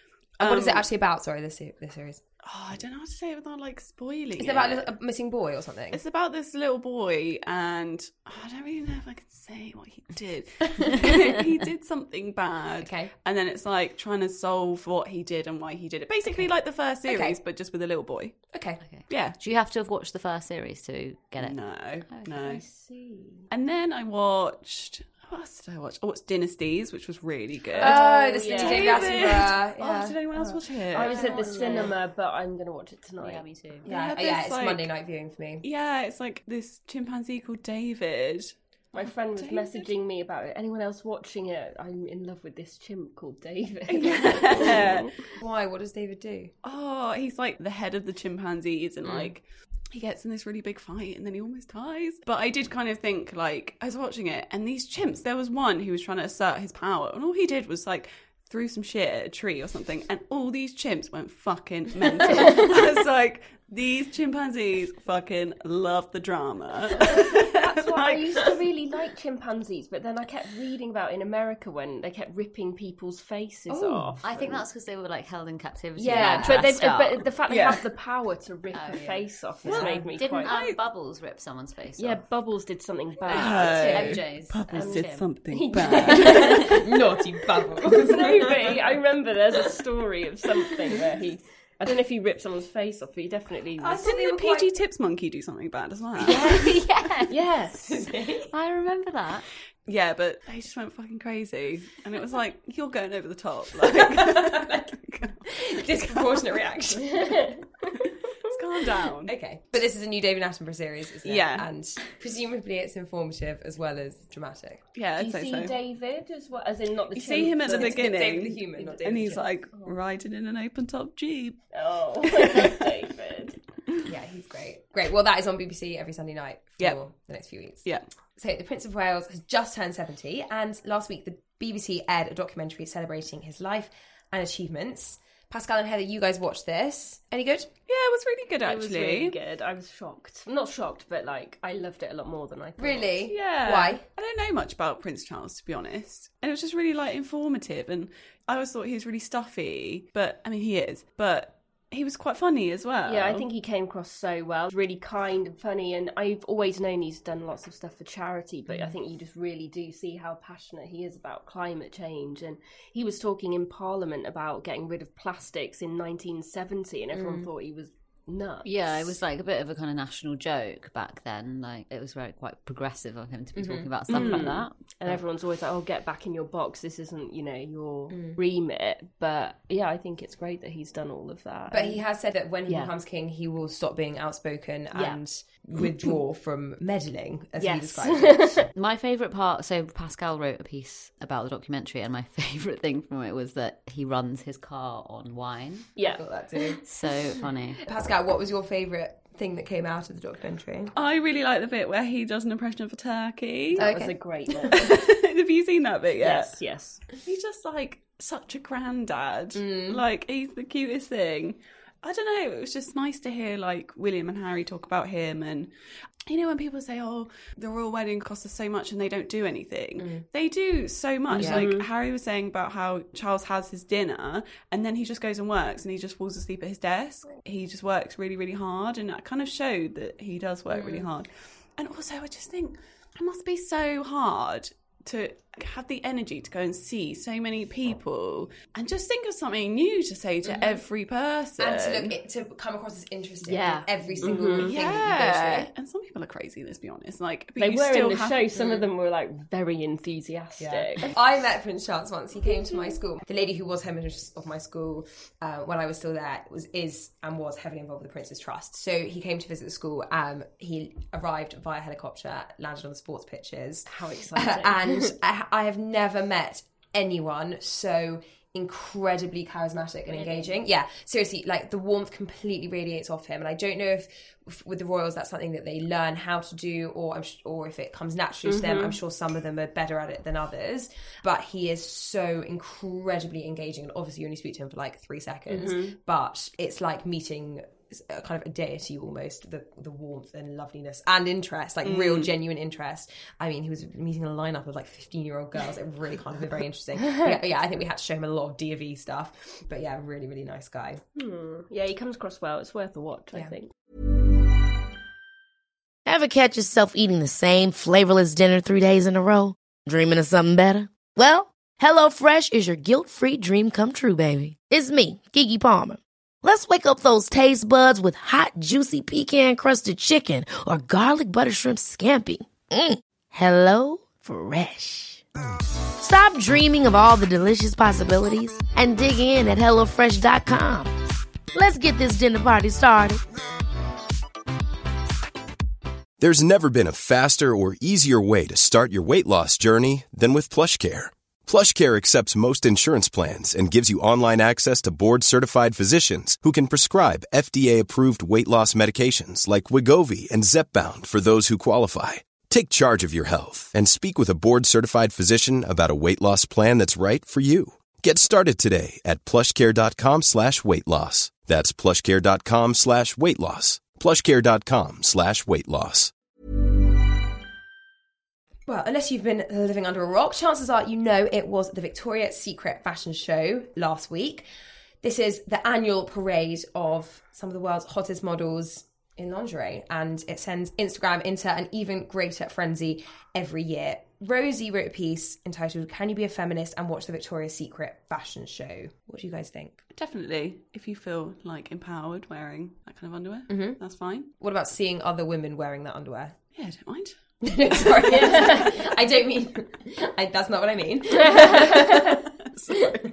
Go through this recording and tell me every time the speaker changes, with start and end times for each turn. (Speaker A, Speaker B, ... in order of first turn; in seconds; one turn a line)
Speaker A: 0.4-0.9
Speaker B: 0.4-2.2
Speaker A: 2.4-4.9
Speaker B: 4.4-6.0
Speaker A: 5.9-18.4
Speaker B: 12.8-13.1
Speaker B: 17.1-17.4
Speaker B: 18.5-18.8
Speaker C: 18.8-22.6
Speaker A: 19.1-19.4
Speaker A: 21.4-22.6
Speaker D: 22.4-23.5
Speaker A: 23.5-31.8
Speaker D: 27.8-29.2
Speaker B: 27.8-30.2
Speaker D: 30.4-33.4
Speaker B: 31.2-31.7
Speaker C: 33.2-33.9
Speaker A: 33.9-34.9
Speaker B: 33.9-35.6
Speaker A: 35.6-38.5
Speaker D: 38.9-45.1
Speaker A: 39.4-39.9
Speaker A: 43.9-45.1
Speaker B: 45.4-46.5
Speaker A: 46.6-68.5
Speaker D: 67.0-74.3
Speaker B: 73.7-74.6
Speaker C: 74.2-77.3
Speaker D: 76.0-80.5
Speaker B: 76.0-76.7
Speaker A: 77.5-77.8
Speaker C: 78.7-82.2
Speaker A: 79.7-80.8
Speaker B: 79.7-80.0
Speaker D: 82.0-84.1
Speaker A: 83.3-86.8
Speaker C: 83.4-85.3
Speaker B: 83.8-84.2
Speaker D: 84.7-87.0
Speaker B: 86.2-88.9
Speaker D: 87.8-94.0
Speaker B: 93.8-94.7
Speaker A: 94.0-96.5
Speaker C: 96.2-97.4
Speaker D: 97.3-98.1
Speaker B: 97.9-98.5
Speaker C: 98.5-99.5
Speaker A: 99.9-105.5
Speaker B: 103.9-105.0
Speaker B: 105.5-107.5
Speaker D: 107.0-107.6
Speaker A: 108.4-109.3
Speaker B: 109.2-114.8
Speaker A: 111.2-111.7
Speaker A: 115.0-115.8
Speaker D: 115.2-118.2
Speaker A: 117.1-121.7
Speaker B: 117.6-119.5
Speaker D: 121.7-123.6
Speaker A: 122.4-122.8
Speaker B: 124.0-137.7
Speaker A: 137.9-139.4
Speaker D: 138.6-143.1
Speaker B: 142.8-144.1
Speaker A: 143.3-153.5
Speaker D: 153.1-169.1
Speaker B: 167.1-167.5
Speaker C: 168.6-175.2
Speaker B: 173.6-173.9
Speaker A: 174.1-174.5
Speaker D: 174.1-182.0
Speaker B: 178.1-178.4
Speaker B: 181.7-188.6
Speaker D: 184.9-185.2
Speaker D: 187.6-188.7
Speaker C: 188.7-195.9
Speaker D: 196.0-196.2
Speaker B: 196.0-196.8
Speaker C: 196.8-197.8
Speaker B: 197.9-200.9
Speaker A: 200.9-203.8
Speaker D: 203.8-204.9
Speaker B: 203.8-204.2
Speaker A: 204.7-206.6
Speaker D: 206.2-207.0
Speaker A: 207.2-215.7
Speaker B: 209.6-210.0
Speaker A: 216.3-242.2
Speaker B: 220.0-220.2
Speaker D: 221.3-221.9
Speaker B: 221.4-221.7
Speaker B: 230.7-231.1
Speaker B: 241.6-245.7
Speaker D: 243.4-244.7
Speaker A: 244.2-248.6
Speaker D: 247.6-251.1
Speaker B: 250.6-301.0
Speaker D: 263.9-265.1
Speaker D: 270.1-270.6
Speaker D: 278.5-279.0
Speaker D: 285.5-286.0
Speaker A: 291.9-292.3
Speaker D: 301.1-303.7
Speaker E: 306.1-325.2
Speaker E: 326.0-330.9
Speaker E: 331.5-333.2
Speaker F: 336.2-366.1
Speaker B: 368.7-374.4
Speaker B: 375.0-389.8
Speaker A: 389.9-394.3
Speaker B: 393.5-393.8
Speaker B: 394.4-396.4
Speaker A: 396.6-397.2
Speaker B: 397.4-402.3
Speaker D: 398.1-398.8
Speaker D: 401.1-402.2
Speaker A: 402.6-403.0